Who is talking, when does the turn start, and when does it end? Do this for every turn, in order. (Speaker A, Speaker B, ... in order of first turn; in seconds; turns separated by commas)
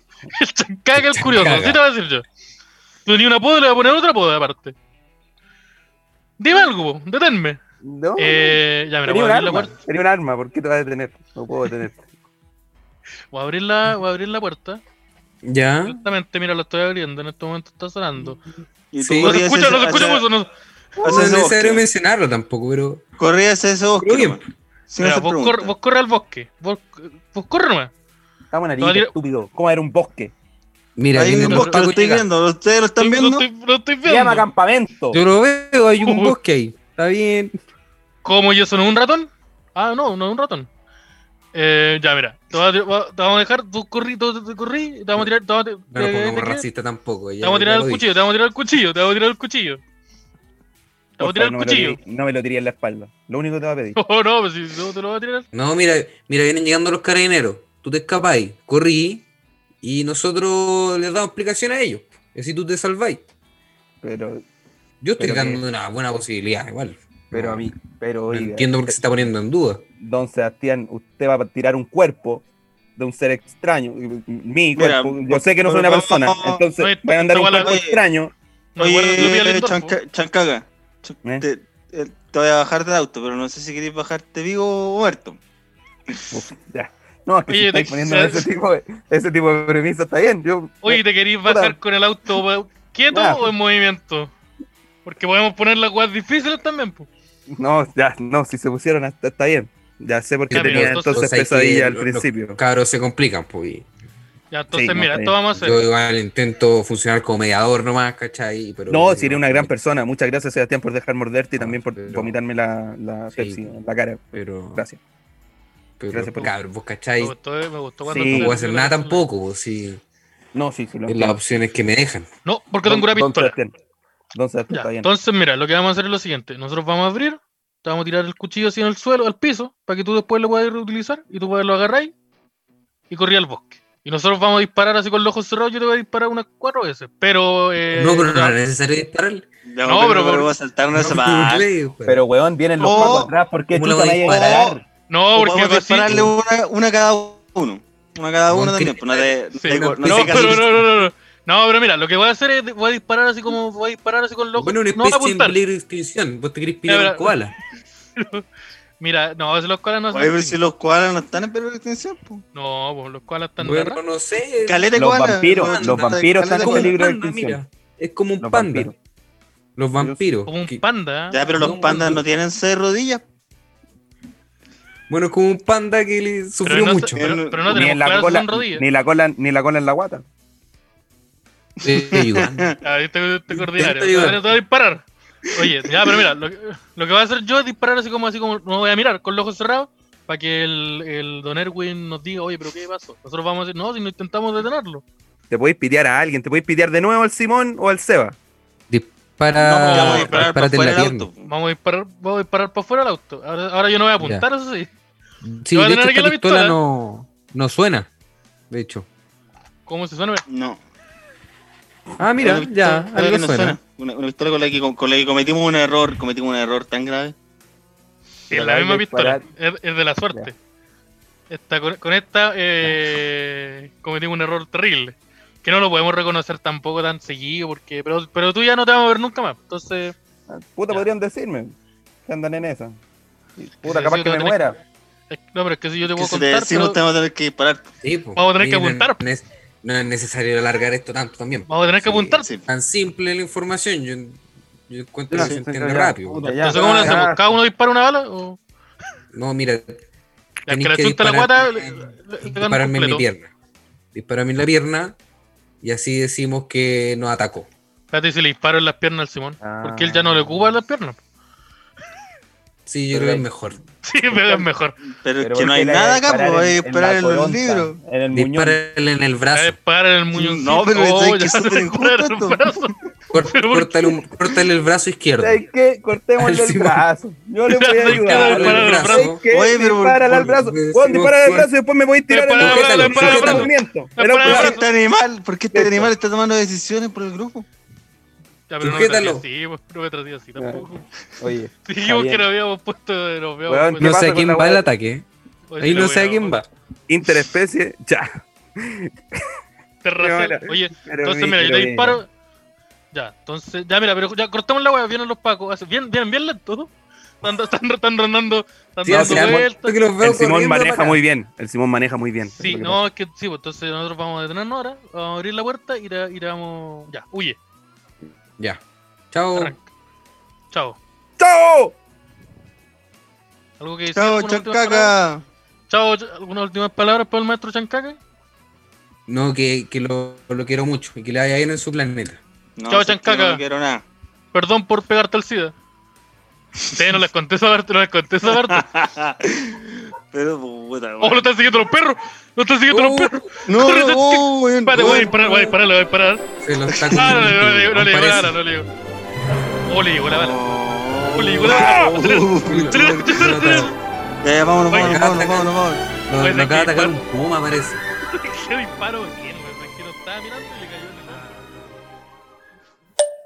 Speaker A: 0.3-2.2, Speaker B: 0.9-1.8, Speaker A: 3.0-4.7, Speaker A: 6.4-7.6, Speaker C: 7.8-12.1, Speaker A: 8.2-9.7, Speaker A: 13.3-14.8, Speaker B: 15.4-16.0, Speaker A: 15.8-18.4, Speaker D: 18.9-20.2, Speaker B: 19.0-19.4, Speaker A: 19.2-20.5, Speaker B: 21.0-23.0, Speaker D: 21.0-21.9, Speaker D: 23.2-25.7, Speaker B: 24.0-24.4, Speaker A: 25.0-27.9, Speaker C: 28.5-30.3, Speaker A: 28.8-29.1, Speaker B: 31.0-32.2, Speaker D: 31.1-33.5, Speaker A: 31.3-31.9, Speaker A: 33.0-34.5, Speaker C: 34.0-35.2, Speaker B: 35.1-37.5, Speaker A: 36.0-36.3, Speaker A: 38.2-40.7, Speaker A: 41.5-46.6, Speaker B: 45.9-48.0, Speaker A: 47.4-49.8, Speaker A: 51.2-52.0, Speaker C: 51.2-54.0, Speaker A: 54.0-55.5, Speaker B: 55.5-59.2, Speaker B: 59.8-63.2, Speaker C: 64.0-64.4, Speaker B: 65.0-67.7, Speaker C: 65.2-65.6, Speaker C: 67.3-69.2, Speaker B: 68.3-69.8, Speaker C: 70.0-72.4, Speaker C: 73.0-78.3, Speaker D: 74.7-76.6, Speaker A: 76.8-77.8, Speaker D: 77.6-78.0, Speaker A: 78.8-80.0, Speaker D: 78.8-85.4, Speaker C: 86.3-91.8, Speaker A: 87.5-88.5, Speaker A: 90.8-94.3, Speaker C: 93.1-93.5, Speaker A: 95.0-97.1, Speaker C: 97.5-102.6, Speaker B: 100.5-103.8, Speaker A: 100.5-101.3, Speaker A: 104.5-105.8, Speaker C: 104.7-105.3, Speaker B: 105.5-109.7, Speaker C: 108.9-114.2, Speaker B: 111.5-112.3, Speaker B: 113.3-113.6, Speaker B: 114.3-114.8, Speaker C: 114.7-115.0, Speaker B: 116.0-117.3, Speaker C: 116.1-116.5, Speaker A: 117.2-119.3, Speaker C: 118.0-118.5, Speaker B: 118.1-120.0, Speaker C: 120.5-121.3, Speaker B: 121.1-122.3, Speaker A: 122.4-123.5, Speaker C: 122.8-123.7, Speaker C: 124.3-125.1, Speaker A: 124.7-132.1, Speaker A: 133.1-138.6, Speaker B: 137.9-139.4, Speaker D: 139.7-141.7, Speaker A: 139.8-140.5, Speaker B: 140.9-142.2, Speaker C: 142.1-144.8, Speaker D: 142.8-143.3, Speaker B: 143.7-144.7, Speaker D: 144.2-144.8, Speaker A: 145.1-146.1, Speaker D: 145.3-150.8, Speaker B: 146.1-146.3, Speaker B: 148.5-149.1, Speaker A: 149.5-155.6, Speaker B: 149.8-150.8, Speaker B: 154.6-157.5, Speaker A: 156.9-157.3, Speaker A: 158.2-158.4, Speaker A: 159.0-160.6, Speaker D: 160.1-162.4, Speaker A: 162.5-164.0, Speaker B: 163.6-168.9, Speaker D: 164.7-167.0, Speaker C: 164.9-167.6, Speaker C: 168.4-168.9, Speaker B: 169.8-170.8, Speaker A: 170.5-171.9, Speaker D: 171.3-173.2, Speaker B: 171.6-172.2, Speaker B: 175.1-177.3, Speaker A: 176.6-178.8, Speaker D: 177.2-177.6, Speaker C: 177.7-180.2, Speaker D: 181.8-182.7, Speaker B: 181.8-182.7, Speaker A: 182.8-185.0, Speaker B: 183.5-184.4, Speaker A: 185.6-195.0, Speaker C: 195.5-198.4, Speaker B: 198.9-201.3, Speaker A: 199.6-200.5, Speaker D: 199.9-201.5, Speaker A: 201.4-204.9, Speaker B: 204.2-204.4, Speaker B: 205.4-208.1, Speaker A: 205.7-206.8, Speaker B: 208.7-209.1, Speaker A: 209.9-210.4, Speaker D: 210.5-210.8, Speaker B: 212.2-213.8, Speaker D: 212.4-217.3, Speaker A: 218.5-220.5, Speaker C: 218.5-219.4, Speaker A: 221.5-230.1, Speaker C: 230.5-231.7, Speaker C: 232.3-233.0, Speaker C: 233.6-234.8, Speaker A: 233.8-234.6, Speaker A: 235.3-237.0, Speaker D: 236.0-237.9, Speaker B: 238.0-247.3, Speaker A: 238.3-239.2, Speaker A: 241.7-242.4, Speaker C: 245.3-247.4, Speaker A: 246.6-248.6, Speaker B: 249.3-250.0, Speaker A: 250.7-253.2, Speaker B: 250.7-253.5, Speaker B: 254.1-255.2, Speaker B: 255.8-257.7, Speaker A: 258.1-261.2, Speaker C: 259.6-260.8, Speaker B: 262.9-263.8, Speaker C: 263.1-263.5, Speaker A: 264.0-264.9, Speaker C: 264.3-264.7, Speaker D: 265.1-268.0, Speaker C: 265.4-268.8, Speaker B: 268.3-269.8, Speaker A: 269.5-274.1, Speaker D: 270.3-272.6, Speaker B: 273.3-275.6, Speaker C: 275.4-284.7, Speaker B: 276.4-277.0, Speaker A: 277.7-279.3, Speaker B: 278.0-279.4, Speaker D: 279.5-280.4, Speaker B: 280.3-281.7, Speaker A: 282.3-284.9, Speaker B: 282.6-283.7, Speaker D: 284.4-287.7, Speaker C: 285.7-286.1, Speaker A: 288.7-291.1, Speaker B: 288.8-289.4, Speaker C: 290.6-290.9, Speaker C: 291.4-292.4, Speaker A: 291.8-294.2, Speaker C: 293.7-294.8, Speaker B: 294.0-295.2, Speaker A: 295.7-296.6, Speaker B: 295.8-296.7, Speaker C: 297.1-299.4, Speaker A: 300.0-302.3, Speaker C: 300.2-302.2, Speaker A: 303.1-306.9, Speaker A: 307.4-310.0, Speaker B: 309.1-311.2, Speaker C: 309.1-309.6, Speaker C: 310.2-313.0, Speaker A: 312.6-317.6, Speaker B: 319.3-319.7, Speaker A: 319.5-319.8, Speaker A: 320.7-321.0, Speaker C: 321.4-321.9, Speaker A: 323.8-325.1, Speaker D: 324.1-325.4, Speaker A: 325.9-328.2, Speaker B: 329.3-332.4, Speaker D: 332.8-334.0, Speaker A: 332.9-333.6, Speaker A: 334.5-335.7, Speaker A: 336.9-338.8, Speaker D: 338.5-341.5, Speaker A: 341.2-346.4, Speaker B: 342.9-343.5, Speaker D: 343.7-345.3, Speaker B: 344.9-345.8, Speaker B: 346.6-348.6, Speaker D: 346.9-347.4, Speaker A: 347.1-348.9, Speaker A: 349.9-350.6, Speaker D: 350.3-353.9, Speaker A: 351.3-353.9, Speaker B: 352.6-353.9, Speaker D: 354.4-356.0, Speaker A: 354.9-355.2, Speaker B: 355.0-358.0, Speaker A: 356.4-357.1, Speaker A: 358.3-361.5